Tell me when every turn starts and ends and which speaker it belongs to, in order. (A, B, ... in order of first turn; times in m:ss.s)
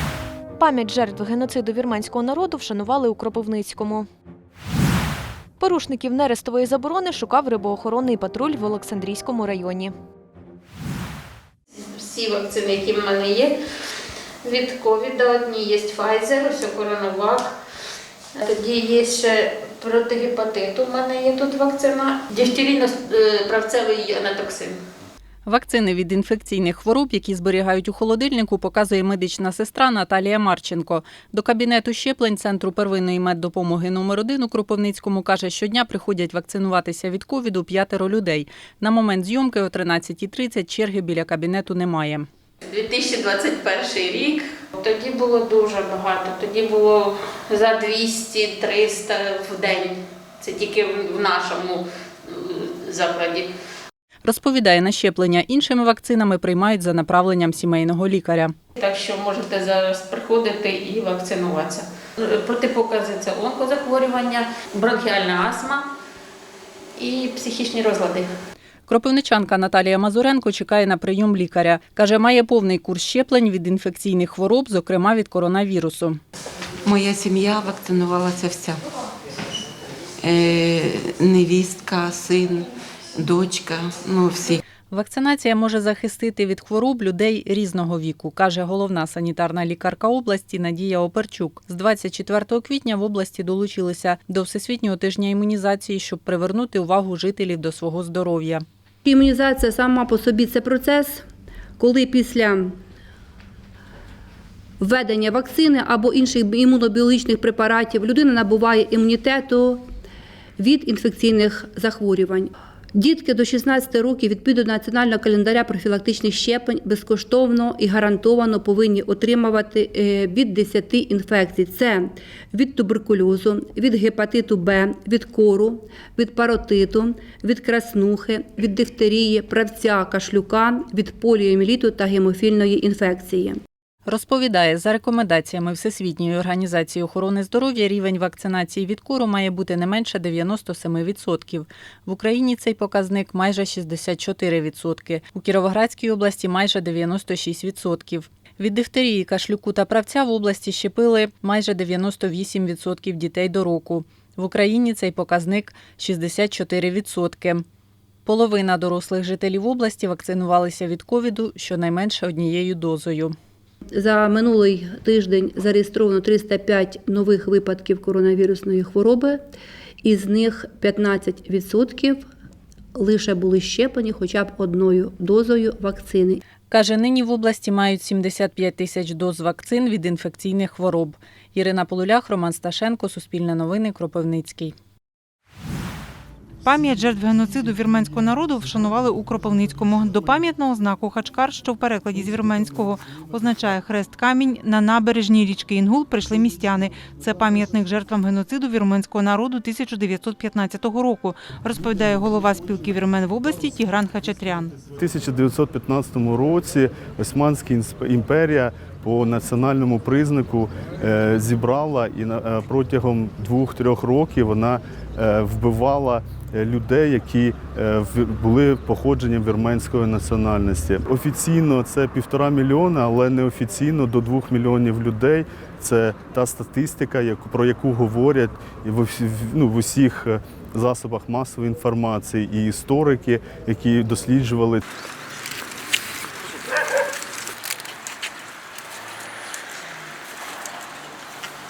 0:00.6-0:04.1 A
0:05.6-0:09.9 A
0:11.8-0:13.6 B
0:14.4-0:17.5 B
0:18.4-0:24.8 B
0:25.5-0:42.3 C
0:42.6-0:53.5 B
0:54.2-0:58.6 C
0:58.8-1:05.9 B
1:07.0-1:08.3 B
1:08.9-1:16.2 C
1:16.9-1:18.8 D
1:20.2-1:24.6 D
1:24.9-1:38.6 C
1:39.0-1:41.2 E
1:41.8-1:42.7 E
1:44.8-1:49.8 E
1:50.6-2:13.6 E
2:14.1-2:37.6 C
2:38.3-2:43.4 C
2:43.9-2:49.4 E
2:50.0-2:52.2 E
2:53.0-2:56.4 E
2:56.7-3:04.7 C
3:06.6-3:24.8 F
3:25.0-3:54.8 G